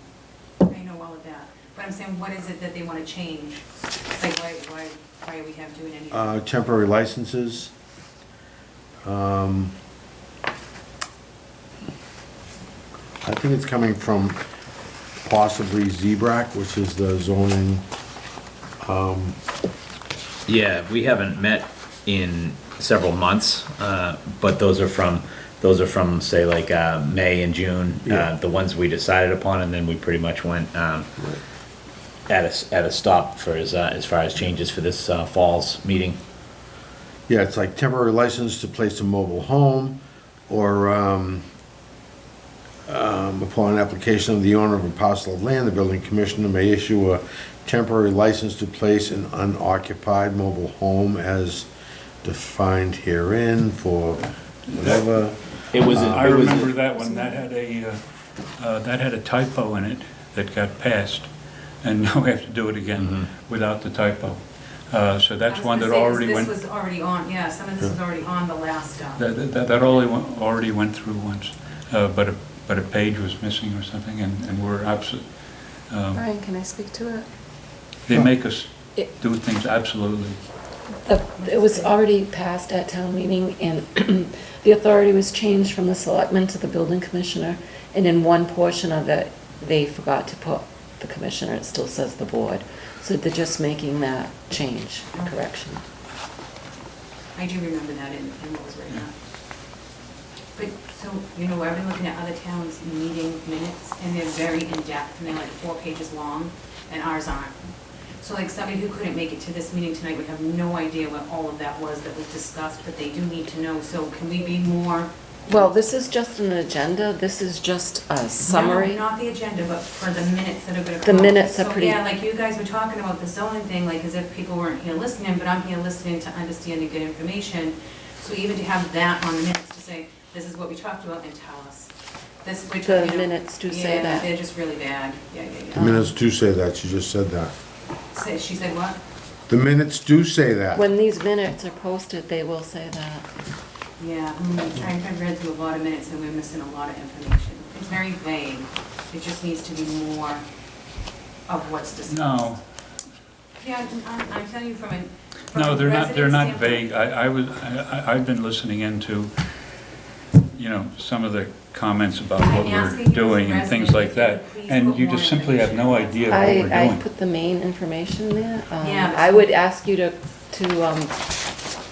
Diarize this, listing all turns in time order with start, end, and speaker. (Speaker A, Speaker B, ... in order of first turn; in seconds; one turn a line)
Speaker A: 0.7-6.4
Speaker B: 6.1-7.7
Speaker B: 9.0-9.7
Speaker B: 13.2-14.4
Speaker B: 15.2-17.8
Speaker B: 18.8-19.4
Speaker C: 20.5-31.1
Speaker B: 28.1-28.3
Speaker C: 32.3-36.2
Speaker B: 37.3-41.4
Speaker B: 42.9-51.7
Speaker B: 52.2-56.3
Speaker D: 54.8-55.0
Speaker C: 55.7-56.7
Speaker D: 55.8-58.0
Speaker D: 58.6-61.3
Speaker D: 61.8-66.5
Speaker C: 63.0-63.3
Speaker A: 65.5-69.2
Speaker D: 69.2-75.3
Speaker D: 75.9-76.2
Speaker E: 76.1-77.3
Speaker D: 78.1-80.4
Speaker E: 81.0-95.8
Speaker A: 81.4-81.9
Speaker A: 97.3-99.1
Speaker A: 100.5-107.5
Speaker A: 108.2-115.7
Speaker E: 115.5-119.0
Speaker A: 118.4-131.9
Speaker E: 121.0-122.0
Speaker A: 132.4-136.0
Speaker E: 132.8-134.3
Speaker B: 135.7-137.5
Speaker E: 135.8-136.1
Speaker A: 138.1-139.0
Speaker B: 139.5-140.8
Speaker E: 140.7-143.2
Speaker A: 144.0-150.4
Speaker A: 151.5-152.5
Speaker D: 152.1-152.6
Speaker A: 153.6-156.9
Speaker D: 155.5-159.3
Speaker D: 160.5-167.0
Speaker A: 162.4-166.8
Speaker E: 166.3-171.1
Speaker A: 168.8-169.5